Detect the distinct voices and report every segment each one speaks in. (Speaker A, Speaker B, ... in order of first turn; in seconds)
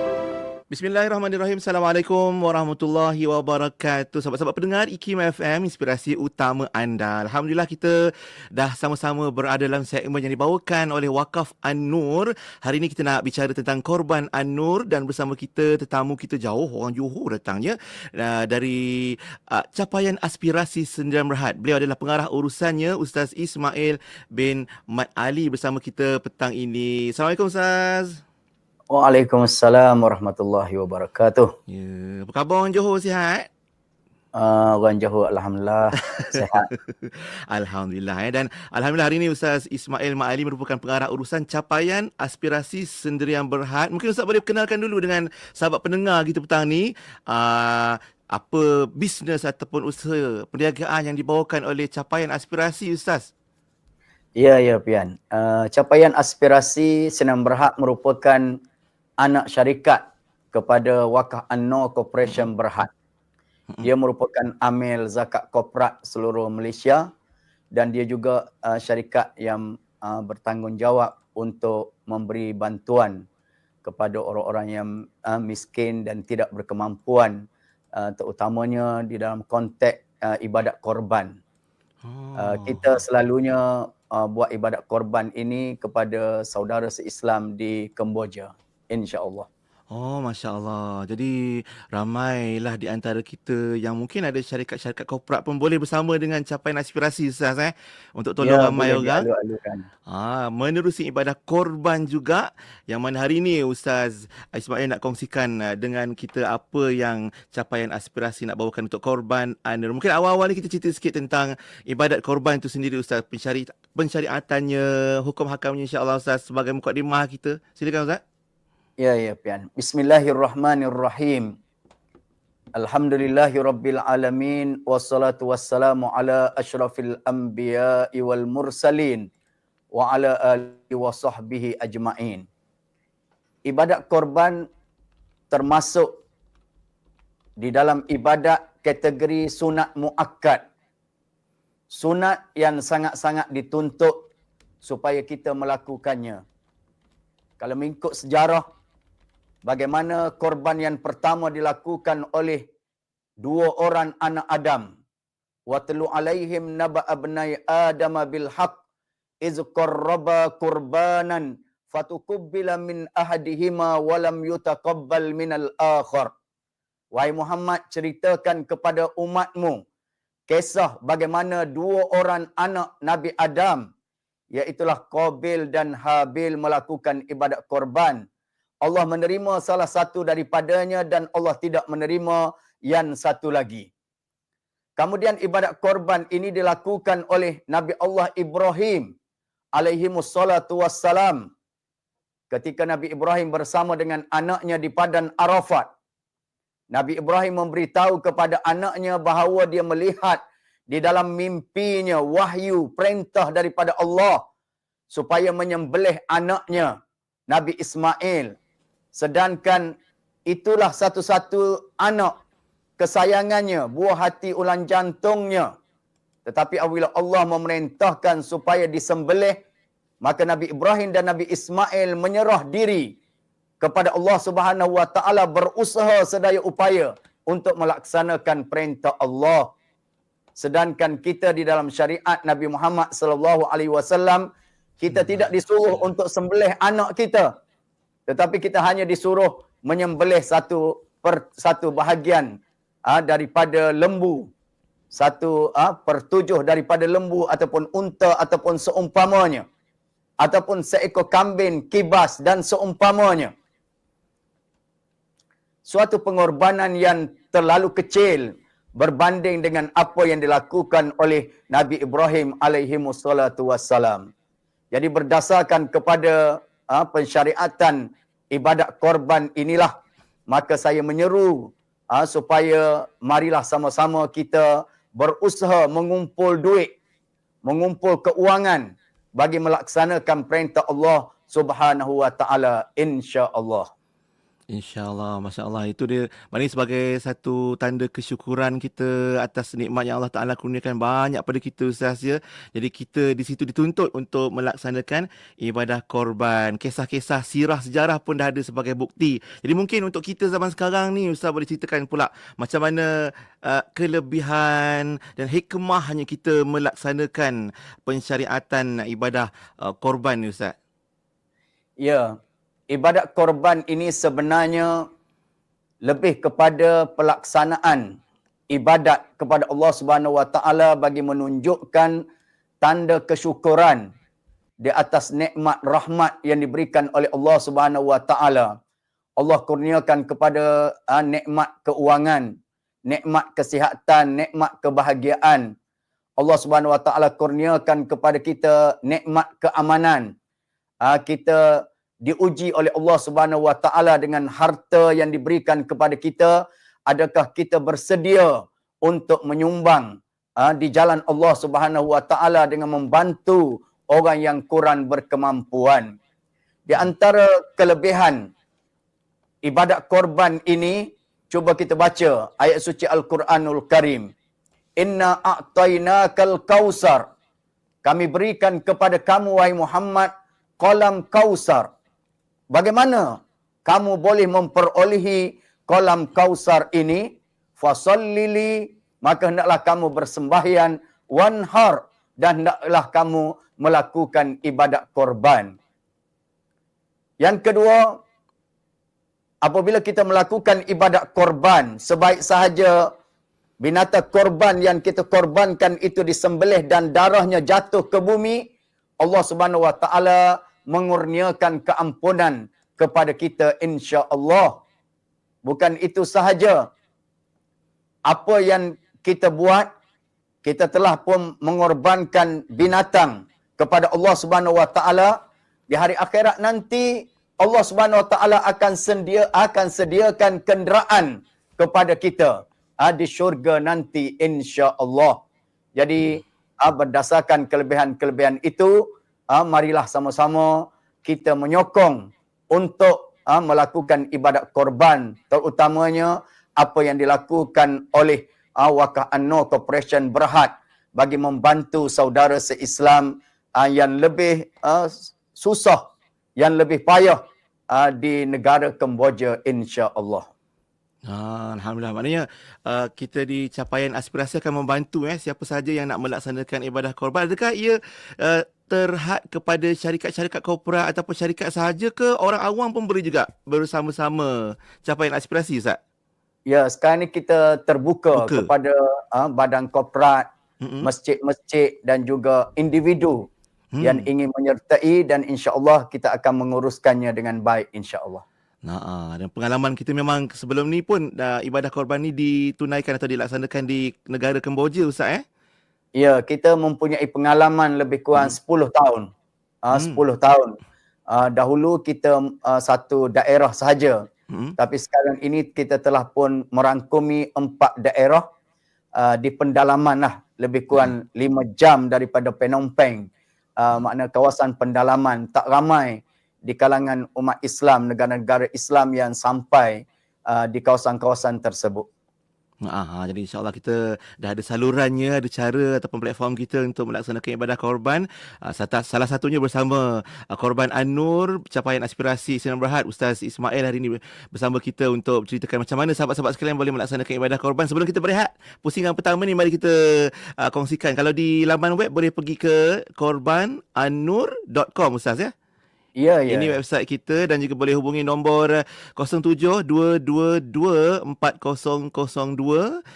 Speaker A: 0.7-7.9, 8.5-28.2, 31.7-33.5, 36.1-53.3, 82.0-83.0, 89.9-99.2, 100.1-118.2, 235.1-236.1, 284.7-303.1, 303.6-310.7, 451.3-466.0, 468.3-468.7, 470.8-471.1, 473.9-474.3, 478.8-485.4, 489.9-490.2, 512.8-535.5, 536.5-542.9
Speaker B: 28.9-31.5, 34.3-36.6, 54.4-58.4, 59.2-60.0, 60.5-62.9, 63.8-67.1, 67.7-73.2, 73.8-77.4, 78.0-81.4, 82.4-89.5, 98.4-99.8, 119.0-121.5, 122.8-129.3, 129.9-132.4, 133.7-134.7, 135.5-136.1, 137.6-140.6, 141.9-144.2, 144.8-146.4, 147.6-148.6, 149.6-152.6, 153.4-154.9, 155.7-158.8, 159.4-166.3, 167.1-169.8, 170.5-173.9, 174.5-178.2, 178.8-183.9, 185.0-189.1, 189.7-191.5, 192.5-195.9, 196.9-204.4, 205.1-206.9, 207.5-208.5, 209.1-209.9, 210.5-212.3, 213.0-215.7, 216.4-219.6, 220.2-223.1, 223.8-229.7, 230.6-234.4, 235.0-237.5, 238.3-242.5, 243.1-244.5, 245.1-249.6, 250.4-253.5, 255.8-264.3, 264.9-269.9, 270.5-276.9, 277.6-283.9, 312.0-312.3, 312.9-315.1, 316.0-318.1, 318.7-322.2, 322.8-324.0, 324.8-328.7, 329.4-332.5, 333.1-335.7, 336.4-340.3, 341.0-356.1, 356.9-358.5, 359.6-364.3, 365.0-367.2, 368.0-371.9, 372.7-385.7, 387.4-388.2, 389.6-393.1, 393.8-398.7, 399.2-404.8, 405.6-406.9, 408.3-409.9, 410.6-415.3, 415.9-425.4, 425.9-446.0, 446.6-450.5, 466.7-470.4, 471.0-473.5, 474.0-478.4, 486.1-489.3, 489.8-490.8, 491.3-494.2, 494.8-498.4, 499.2-503.3, 503.8-512.0, 536.2-536.8